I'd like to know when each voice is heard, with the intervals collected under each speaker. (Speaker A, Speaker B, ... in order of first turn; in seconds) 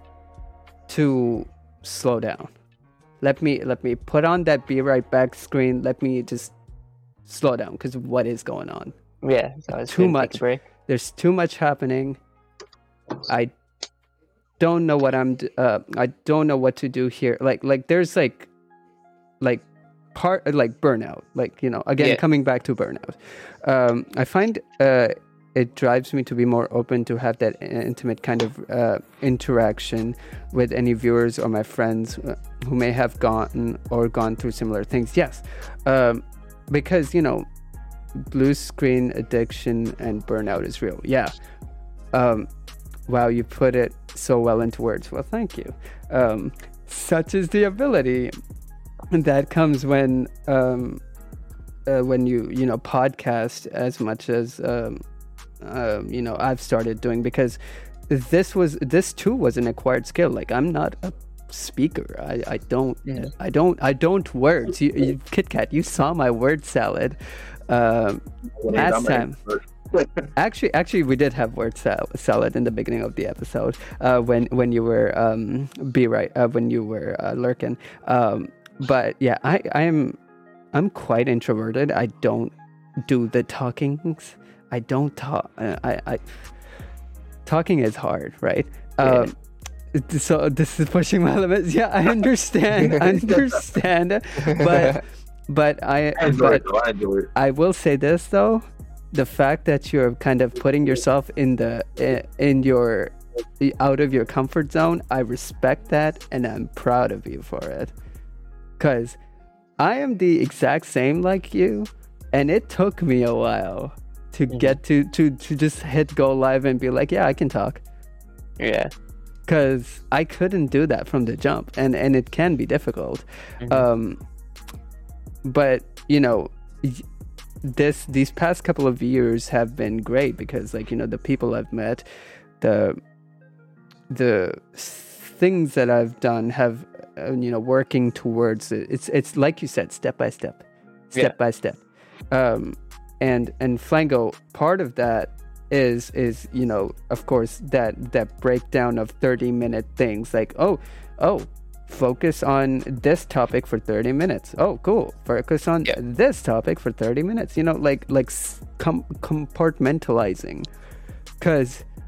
Speaker A: 0.9-2.5, 3.2-6.5, 7.2-8.9, 9.8-12.2, 13.3-13.5, 14.6-18.5, 19.4-37.5, 38.1-41.3, 42.1-42.5, 43.1-48.3, 49.1-51.0, 51.9-55.0, 55.6-69.3, 70.3-80.2, 80.7-86.5, 87.5-89.3, 89.9-96.6, 97.3-107.9, 108.8-109.2, 109.8-117.8, 119.5-124.2, 125.4-127.0, 127.6-132.1, 132.6-133.0, 134.1-160.7, 161.4-161.8
Speaker B: 9.2-10.6, 63.0-63.3, 89.0-89.3, 94.4-95.0, 114.5-114.8, 118.6-118.9
Speaker C: 68.6-70.3, 96.2-97.3